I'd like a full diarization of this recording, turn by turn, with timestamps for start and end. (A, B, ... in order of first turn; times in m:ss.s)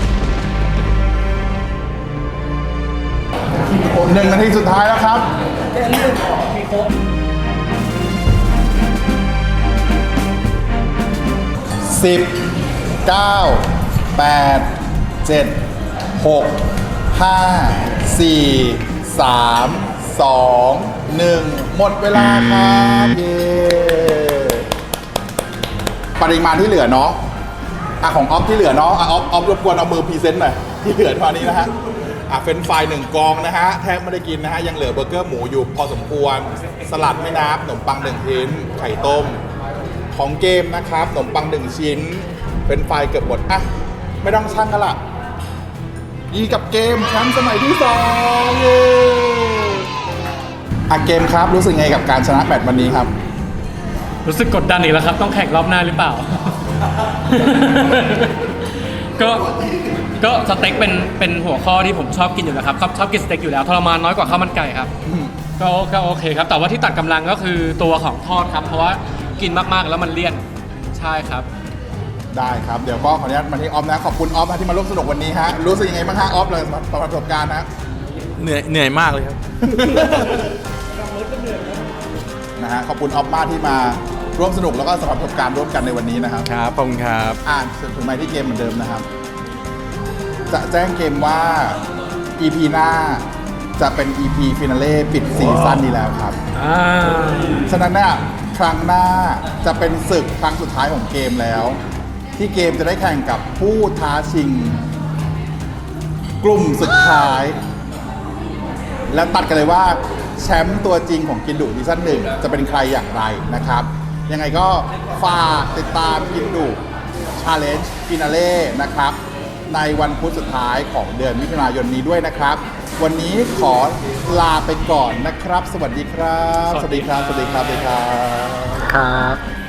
0:03.7-0:05.3 A
0:11.8-0:12.5 A
0:13.0-0:14.7 A
0:15.2-0:15.6 A
0:16.2-0:24.7 A
0:26.2-0:27.2 A
0:28.0-0:31.8 A
0:32.3-0:39.4 A
0:40.1-0:43.7 A
0:44.2-0:45.0 A
0:46.3-0:49.9 A
0:50.9-0:53.1 A
0:54.2-0:56.6 B
0:57.2-0:59.5 B
1:00.2-1:04.9 B
1:05.0-1:05.3 A
1:05.6-1:11.5 B
1:12.3-1:17.7 A
1:18.4-1:20.4 C
1:21.4-1:21.6 B
1:22.6-1:26.5 A
1:26.4-1:27.4 C
1:27.4-1:29.0 A
1:30.5-1:31.8 A
1:32.4-1:33.2 A
1:33.8-1:36.4 A
1:36.6-1:37.6 B
1:37.7-1:41.8 A
1:42.4-1:44.8 A
1:46.4-1:47.6 A
1:49.1-1:56.8 A
1:57.4-1:59.2 A
1:59.7-2:08.8 A
2:06.6-2:07.1 B
2:08.8-2:09.4 B